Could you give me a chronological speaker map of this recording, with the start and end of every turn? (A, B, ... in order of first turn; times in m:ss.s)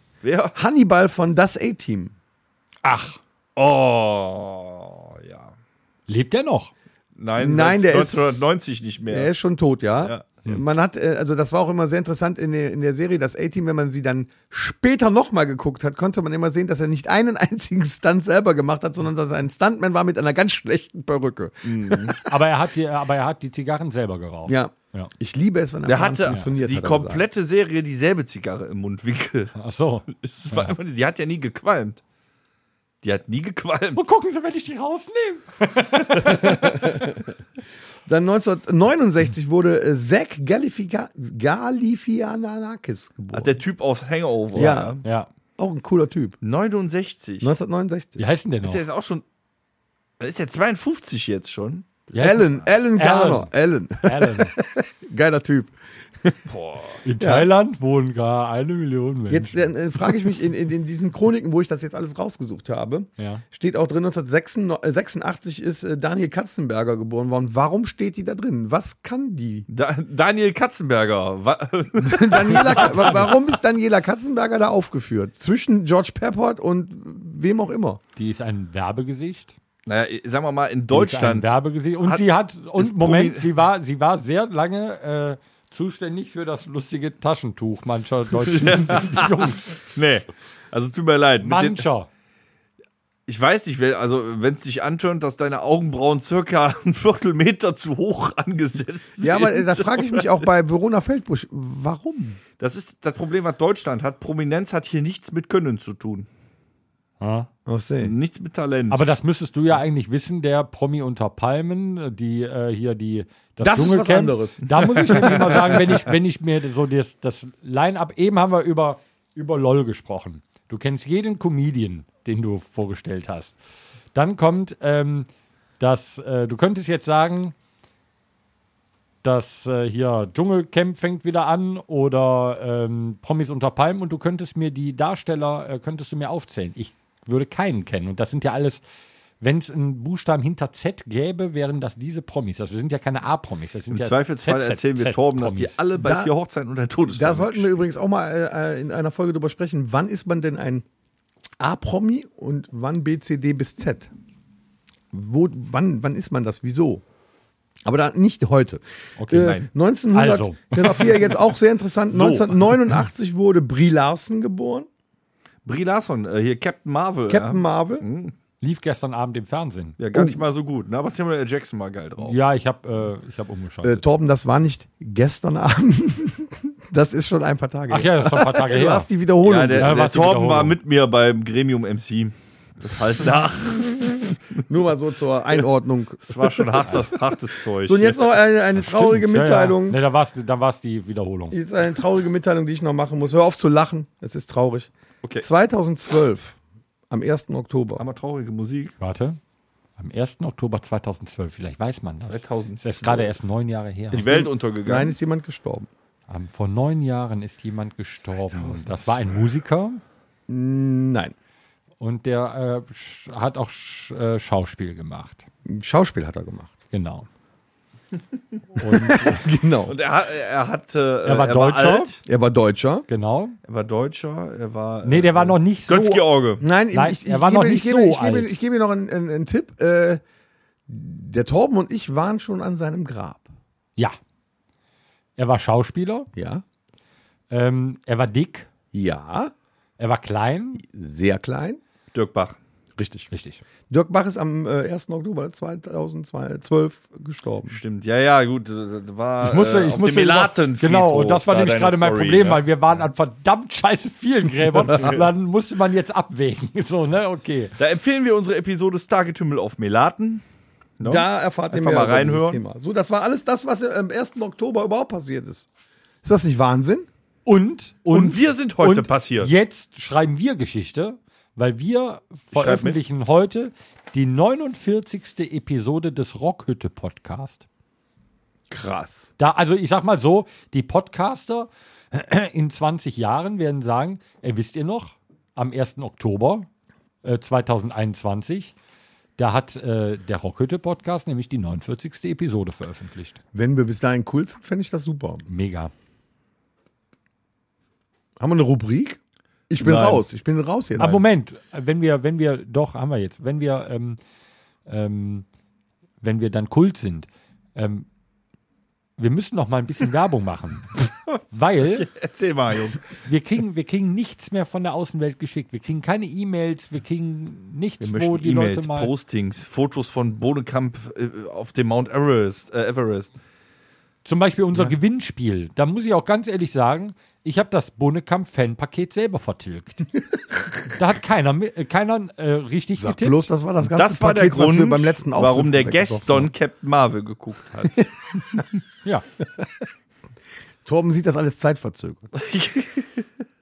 0:00.2-0:00.6 A
0:00.6-0:02.1 B
0:02.8-0:03.2 C
0:03.6-0:05.5 A
0:06.1-0:06.7 C
0:07.2-0:09.3 A
0:07.4-0:08.5 B
0:09.1-0:22.3 B
0:10.0-0:10.4 A
0:21.6-0:22.2 A
0:22.3-0:25.1 C
0:24.5-0:27.2 B
0:25.9-0:29.6 A
0:29.6-0:30.8 C
0:30.1-0:32.0 A
0:33.0-0:34.0 A
0:34.0-0:36.8 C
0:36.2-0:37.2 B
0:38.1-0:43.6 B
0:43.3-0:45.0 A
0:44.6-0:45.0 B
0:44.6-0:45.3 C
0:45.6-0:46.4 B
0:46.4-0:47.5 A
0:47.4-0:48.2 B
0:48.2-0:48.8 C
0:48.6-0:49.2 A
0:50.2-0:52.0 A
0:52.1-0:53.5 C
0:52.1-0:56.4 B
0:54.0-0:54.6 C
0:56.5-0:57.0 A
0:57.0-1:00.1 C
0:57.2-0:57.5 B
0:59.3-1:09.7 B
1:03.2-1:03.4 C
1:09.7-1:13.4 A
1:12.0-1:18.0 B
1:12.8-1:13.3 C
1:18.2-1:19.6 C
1:19.9-1:23.5 A
1:20.9-1:29.8 C
1:28.4-1:31.9 A
1:31.4-1:32.1 C
1:33.3-1:40.3 A
1:39.2-1:42.4 B
1:42.6-1:46.3 A
1:47.2-1:47.5 C
1:47.7-1:48.1 B
1:48.0-1:49.0 A
1:48.9-2:03.6 C
1:53.6-1:55.6 B
1:55.1-1:55.8 A
2:04.1-2:05.3 C
2:05.8-2:07.6 C
2:09.2-2:18.8 C
2:19.4-2:25.8 C
2:23.9-2:27.8 A
2:26.0-2:26.3 B
2:27.1-2:30.8 B
2:31.6-2:34.1 B
2:35.1-2:37.0 B
2:37.8-2:44.9 B
2:39.2-2:39.6 C
2:39.3-2:39.7 A
2:40.1-2:41.1 C
2:42.1-2:42.8 A
2:45.6-2:48.3 A
2:47.3-2:48.0 B
2:48.6-2:50.0 C
2:50.0-2:52.4 A
2:50.1-2:50.4 B
2:52.2-2:54.0 C
2:53.8-3:00.0 B
2:57.9-2:59.1 C
2:59.4-3:04.6 A
2:59.8-3:00.8 C
3:04.7-3:07.1 B
3:06.2-3:08.3 A
3:07.8-3:10.0 B
3:08.8-3:11.6 C
3:11.5-3:16.6 B
3:17.1-3:18.0 B
3:18.0-3:19.0 A
3:19.0-3:19.4 C
3:20.0-3:24.3 C
3:22.3-3:23.3 A
3:24.1-3:25.2 A
3:24.1-3:25.9 B
3:26.3-3:30.0 C
3:28.6-3:29.2 A
3:30.5-3:31.3 B
3:32.0-3:35.5 C
3:35.6-3:36.7 B
3:36.9-3:37.3 C
3:38.8-3:39.4 C
3:38.8-3:40.0 B
3:39.9-3:42.2 A
3:41.2-3:42.2 C
3:42.3-3:43.1 B
3:43.1-3:43.6 C
3:43.7-3:46.6 A
3:45.0-3:46.2 C
3:46.6-3:50.2 B
3:46.9-3:48.5 C
3:50.9-3:53.5 B
3:55.4-3:56.3 C
3:56.4-3:56.6 B
3:57.5-3:58.7 C
3:58.9-3:59.5 B
4:00.0-4:00.8 C
4:00.8-4:01.8 B
4:02.1-4:02.6 A
4:03.0-4:03.3 B
4:03.3-4:03.6 C
4:03.9-4:07.8 B
4:07.7-4:12.6 A
4:09.4-4:17.8 C
4:14.9-4:15.2 A
4:17.8-4:20.4 A
4:21.0-4:22.6 A
4:21.0-4:25.7 B
4:26.2-4:27.1 B
4:27.5-4:37.6 C
4:28.1-4:29.5 A
4:32.5-4:33.0 A
4:38.7-4:39.3 B
4:39.4-4:46.7 C
4:47.2-4:48.7 C
4:49.4-4:53.4 C
4:53.5-4:55.4 B
4:55.5-4:55.9 C
4:58.4-4:59.2 B
4:59.7-5:01.2 B
4:59.8-5:00.2 A
5:01.0-5:04.2 C
5:04.9-5:05.5 C
5:06.2-5:08.1 C
5:09.2-5:12.1 C
5:12.0-5:13.1 A
5:13.2-5:19.1 C
5:18.0-5:23.3 A
5:24.2-5:30.1 C
5:30.9-5:33.5 C
5:33.0-5:36.5 B
5:33.8-5:38.0 A
5:40.8-5:42.3 B
5:42.4-5:43.3 A